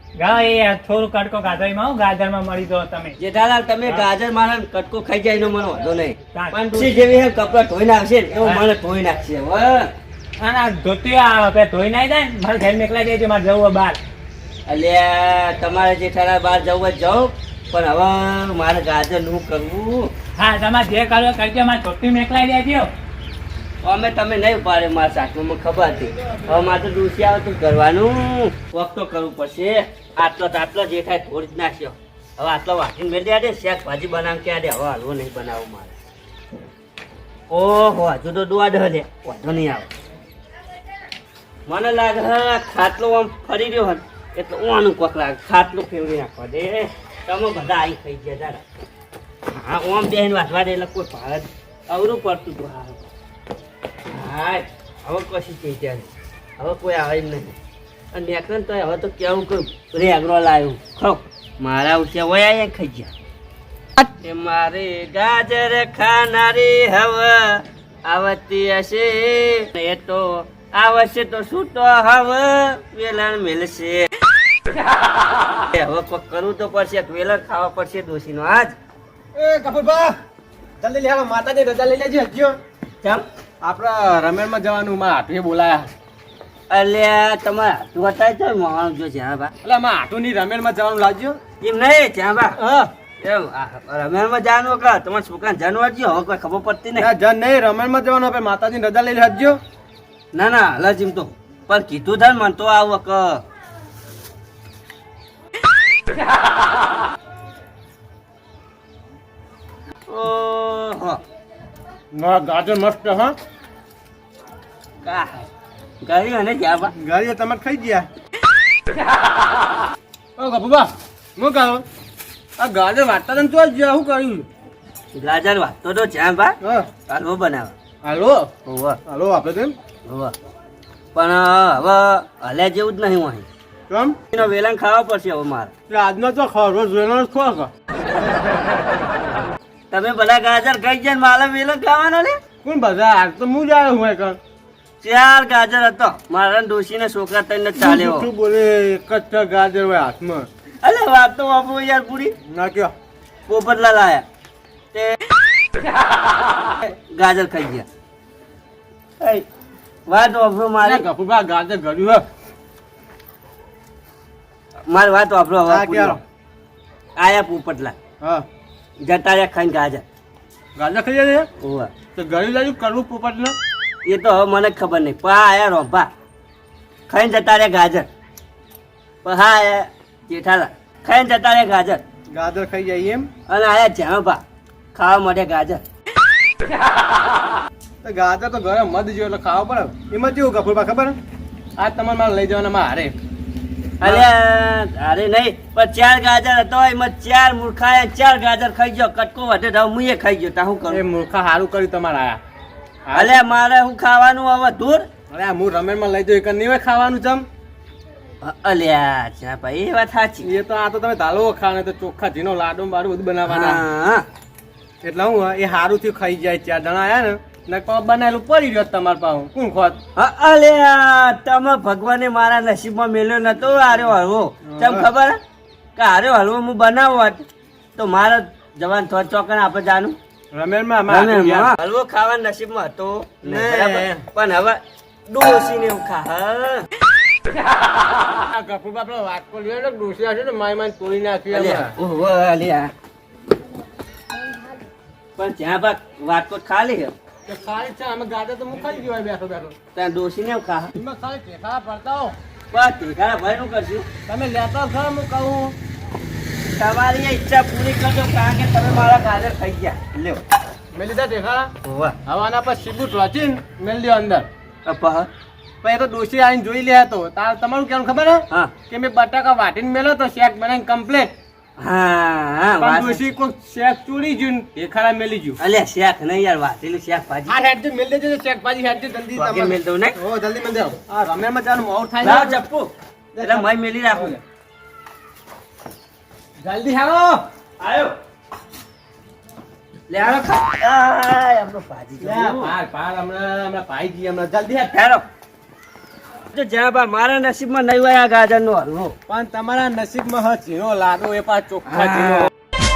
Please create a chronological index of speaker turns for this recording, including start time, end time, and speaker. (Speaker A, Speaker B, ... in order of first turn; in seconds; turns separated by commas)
Speaker A: 0.2-3.2, Speaker B: 3.2-9.9, Speaker A: 6.3-6.9, Speaker A: 10.4-14.0, Speaker B: 14.7-20.1, Speaker A: 20.4-22.9, Speaker B: 23.8-35.9, Speaker B: 37.5-39.9, Speaker B: 41.6-48.6, Speaker B: 49.5-53.0, Speaker B: 54.1-57.5, Speaker B: 58.1-63.1, Speaker B: 64.0-74.1, Speaker B: 75.5-78.8, Speaker C: 79.3-80.2, Speaker C: 80.8-82.6, Speaker C: 83.6-85.9, Speaker B: 86.7-89.5, Speaker C: 89.6-91.4, Speaker B: 91.6-92.6, Speaker C: 92.6-92.9, Speaker B: 93.2-97.1, Speaker C: 97.0-99.6, Speaker B: 100.3-103.4, Speaker B: 110.1-111.2, Speaker C: 112.1-113.3, Speaker B: 115.0-115.5, Speaker B: 116.0-116.9, Speaker C: 117.0-118.1, Speaker C: 120.4-121.8, Speaker C: 122.6-124.5, Speaker B: 125.1-126.6, Speaker C: 126.6-126.9, Speaker B: 127.1-127.7, Speaker C: 128.0-128.5, Speaker B: 128.7-129.0, Speaker C: 129.1-129.8, Speaker B: 130.0-130.3, Speaker B: 131.1-133.5, Speaker C: 133.9-134.2, Speaker B: 134.3-135.7, Speaker C: 135.9-137.7, Speaker B: 139.9-142.4, Speaker C: 142.6-144.4, Speaker B: 145.0-148.3, Speaker C: 147.8-150.5, Speaker B: 150.8-152.3, Speaker C: 152.5-152.9, Speaker B: 153.5-154.2, Speaker B: 154.9-155.2, Speaker B: 157.1-157.8, Speaker B: 159.2-159.4, Speaker B: 160.1-161.1, Speaker C: 160.8-162.2, Speaker B: 164.9-166.2, Speaker C: 165.7-166.2, Speaker B: 167.2-168.0, Speaker B: 169.0-170.0, Speaker C: 170.8-171.5, Speaker B: 171.6-171.9, Speaker C: 172.1-173.6, Speaker B: 174.0-176.1, Speaker B: 177.1-178.1, Speaker B: 179.2-182.0, Speaker C: 182.3-183.3, Speaker B: 183.5-184.4, Speaker B: 184.9-185.8, Speaker C: 188.0-191.2, Speaker C: 191.8-193.1, Speaker C: 194.0-194.3, Speaker B: 194.0-201.0, Speaker C: 200.9-202.4, Speaker C: 203.1-203.4, Speaker B: 203.1-205.1, Speaker C: 205.3-207.4, Speaker B: 208.4-210.5, Speaker C: 210.4-213.8, Speaker B: 213.4-214.3, Speaker C: 215.0-220.0, Speaker B: 220.2-225.4, Speaker C: 224.7-225.1, Speaker B: 225.9-227.4, Speaker B: 227.9-230.2, Speaker C: 230.5-231.7, Speaker B: 231.1-236.9, Speaker C: 233.4-234.1, Speaker C: 238.3-241.9, Speaker B: 241.5-242.9, Speaker B: 245.3-247.1, Speaker C: 247.5-249.7, Speaker B: 249.9-251.0, Speaker C: 250.9-252.3, Speaker B: 252.7-254.1, Speaker C: 254.3-255.7, Speaker B: 256.7-260.4, Speaker C: 260.9-261.7, Speaker B: 261.8-262.1, Speaker C: 262.2-264.4, Speaker B: 264.8-265.3, Speaker C: 265.8-271.3, Speaker B: 271.8-273.3, Speaker C: 272.8-275.6, Speaker B: 275.6-277.6, Speaker C: 277.5-282.6, Speaker B: 279.3-280.2, Speaker B: 282.2-284.4, Speaker C: 283.3-284.4, Speaker C: 286.6-287.4, Speaker B: 287.8-288.1, Speaker B: 290.1-292.7, Speaker C: 292.2-294.9, Speaker B: 294.9-295.2, Speaker B: 296.5-299.1, Speaker C: 299.3-302.5, Speaker B: 301.9-302.5